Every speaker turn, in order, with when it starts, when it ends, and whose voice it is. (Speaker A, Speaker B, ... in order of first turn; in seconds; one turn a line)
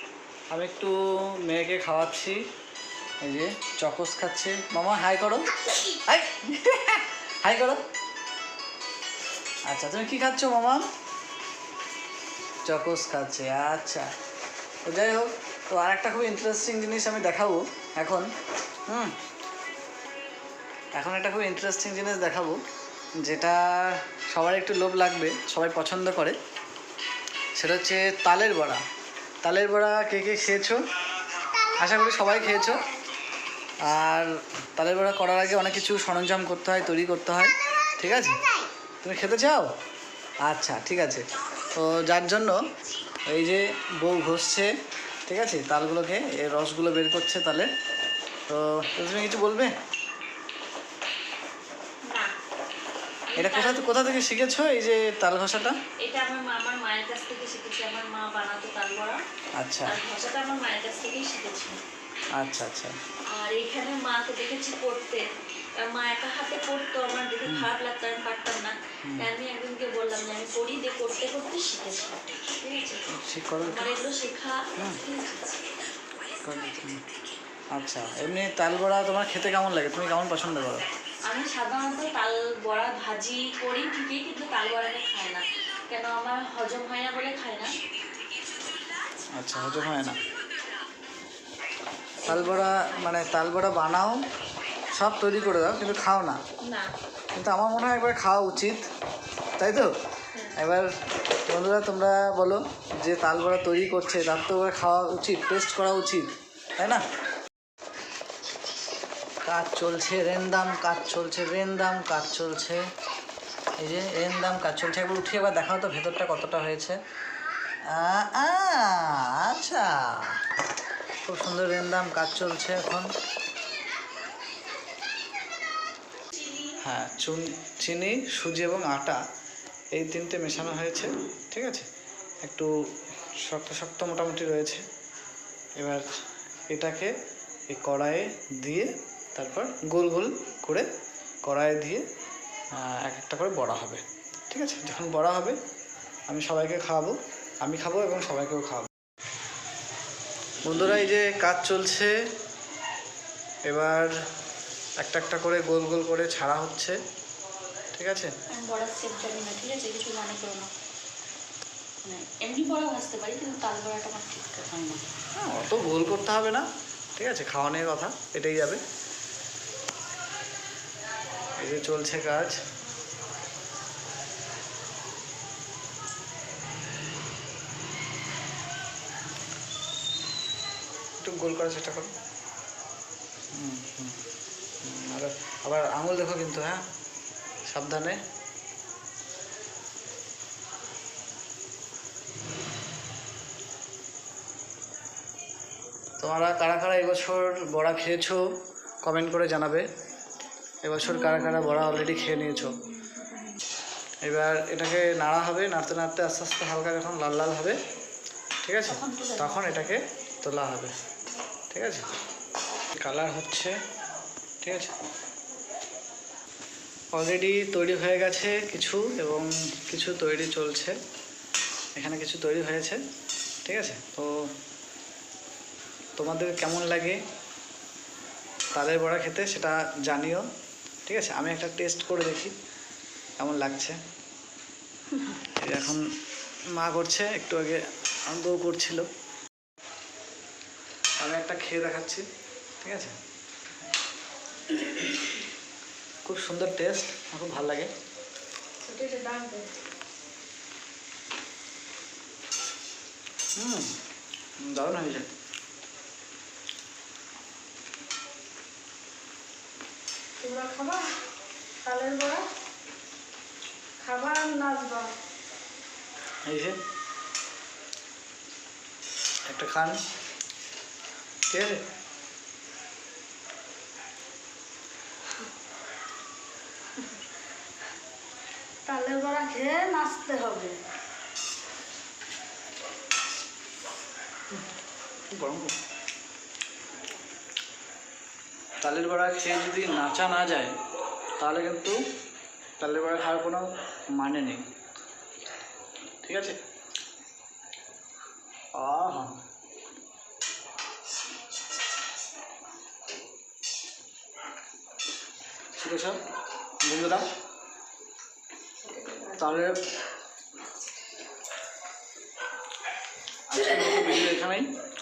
Speaker A: 0.5-2.4
Speaker A: 3.2-7.8
Speaker A: 9.7-10.8
Speaker A: 12.6-14.1
Speaker A: 14.8-18.3
Speaker A: 18.9-19.1
Speaker A: 20.9-22.6
Speaker A: 23.2-26.3
Speaker A: 27.6-28.8
Speaker A: 29.4-30.8
Speaker A: 31.8-32.8
Speaker A: 33.9-38.4
Speaker A: 39.0-39.7
Speaker A: 40.4-42.5
Speaker A: 43.3-44.7
Speaker A: 45.2-47.7
Speaker A: 48.5-49.7
Speaker B: 52.0-52.3
Speaker B: 53.3-54.1
Speaker A: 53.4-55.8
Speaker B: 56.0-59.2
Speaker A: 59.6-60.0
Speaker B: 59.9-61.8
Speaker A: 62.4-62.9
Speaker B: 63.3-65.2
Speaker B: 65.8-73.0
Speaker A: 67.4-67.7
Speaker A: 69.0-69.3
Speaker A: 73.1-73.9
Speaker B: 73.6-75.7
Speaker A: 76.4-77.0
Speaker A: 77.8-80.8
Speaker B: 81.3-87.8
Speaker A: 89.4-90.2
Speaker B: 92.2-93.1
Speaker A: 92.2-94.2
Speaker A: 94.9-96.4
Speaker B: 96.6-96.9
Speaker A: 97.3-98.8
Speaker A: 99.6-99.9
Speaker A: 100.5-100.9
Speaker A: 101.5-107.0
Speaker A: 109.5-112.8
Speaker A: 113.8-117.0
Speaker A: 117.9-120.4
Speaker A: 121.2-123.1
Speaker B: 126.3-126.7
Speaker A: 126.8-129.2
Speaker A: 129.9-131.8
Speaker A: 132.4-132.7
Speaker A: 133.4-134.8
Speaker A: 135.8-136.1
Speaker A: 136.7-137.1
Speaker A: 137.7-140.8
Speaker A: 141.4-142.0
Speaker A: 142.7-145.6
Speaker A: 146.3-148.9
Speaker A: 150.6-152.1
Speaker A: 153.7-154.1
Speaker A: 155.0-157.0
Speaker A: 157.9-158.3
Speaker B: 158.5-160.7
Speaker B: 162.0-165.0
Speaker A: 165.4-168.8
Speaker A: 171.6-172.6
Speaker A: 181.2-182.1
Speaker A: 183.5-184.2
Speaker A: 184.8-186.8
Speaker A: 187.7-188.2
Speaker A: 196.2-198.4
Speaker A: 199.0-199.8
Speaker A: 200.8-202.8
Speaker B: 201.1-201.8
Speaker A: 204.2-207.8
Speaker A: 208.6-210.9
Speaker B: 208.9-209.8
Speaker A: 211.7-212.1
Speaker A: 212.9-213.7
Speaker A: 214.6-214.9
Speaker A: 217.1-220.9
Speaker A: 221.9-223.0
Speaker A: 223.6-224.3
Speaker A: 226.2-227.2
Speaker A: 228.7-230.4
Speaker A: 231.1-232.5
Speaker A: 233.4-234.0
Speaker A: 235.4-236.0
Speaker A: 236.8-239.1
Speaker A: 241.2-242.2
Speaker A: 242.8-243.1
Speaker A: 246.2-247.9
Speaker C: 248.8-249.7
Speaker A: 253.6-253.9
Speaker A: 254.6-255.2
Speaker C: 260.4-261.0
Speaker C: 261.8-262.4
Speaker C: 264.0-265.1
Speaker A: 266.5-266.7
Speaker A: 269.4-270.0
Speaker A: 271.5-271.8
Speaker C: 278.9-280.7
Speaker A: 285.3-285.7
Speaker A: 288.8-290.7
Speaker A: 291.4-291.9
Speaker A: 292.8-293.6
Speaker A: 294.2-294.6
Speaker A: 296.2-296.5
Speaker A: 298.8-299.3
Speaker A: 305.8-306.2
Speaker A: 306.8-307.2
Speaker A: 309.2-309.7
Speaker A: 313.5-314.7